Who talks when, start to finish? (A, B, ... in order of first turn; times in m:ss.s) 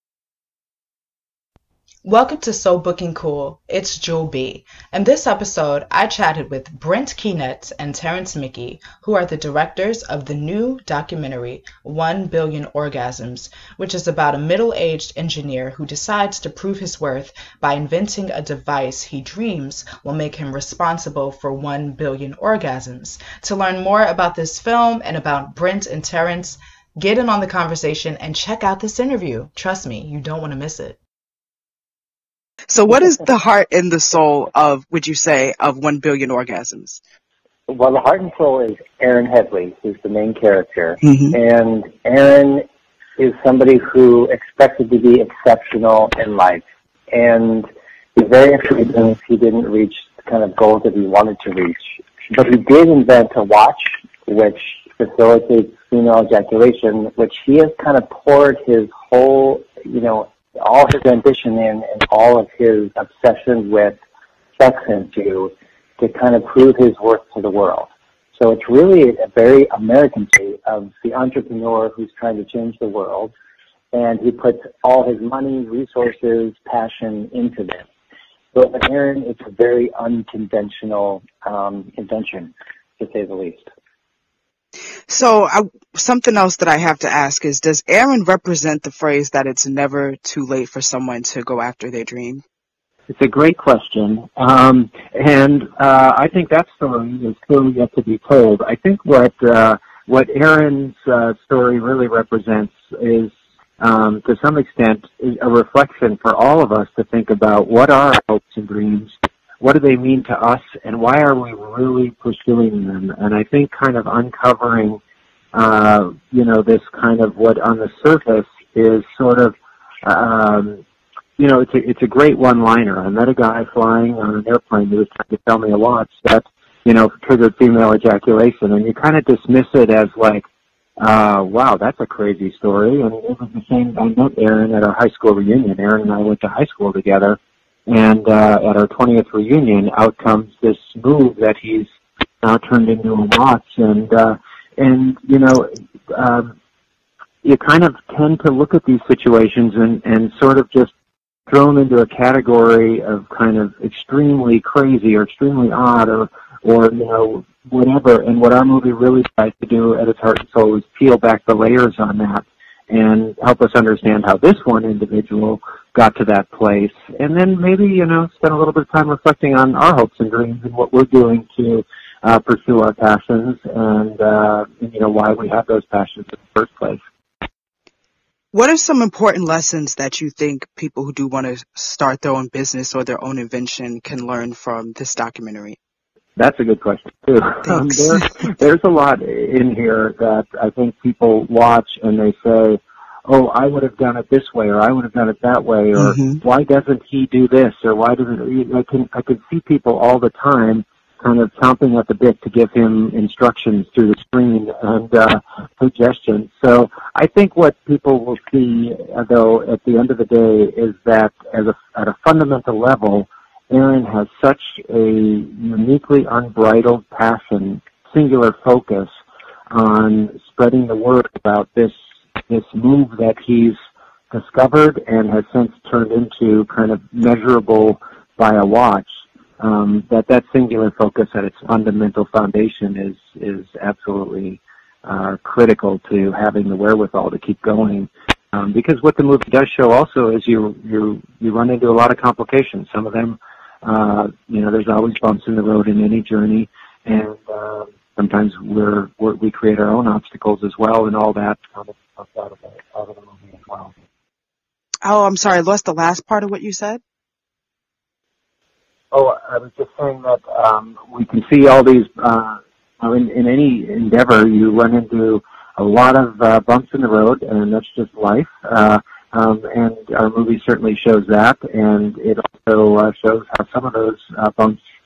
0:02.0-0:31.0 A
0:32.7-0:37.0 B
0:37.7-0:42.6 C
0:41.0-0:41.3 B
0:43.2-1:04.0 C
1:04.6-1:13.3 C
1:13.9-1:17.8 C
1:18.5-1:23.7 C
1:25.1-1:32.4 B
1:33.1-1:55.0 D
1:55.5-2:00.8 D
2:01.4-2:10.4 D
2:11.0-2:21.9 D
2:22.4-2:26.5 D
2:27.4-2:30.9 D
2:31.5-2:57.0 D
2:58.5-3:05.8 B
3:06.4-3:39.1 D
3:07.7-3:08.1 B
3:16.0-3:16.4 B
3:39.7-3:42.0 D
3:42.5-3:43.8 D
3:44.3-4:13.9 D
4:15.0-4:17.0 B
4:19.1-4:34.8 D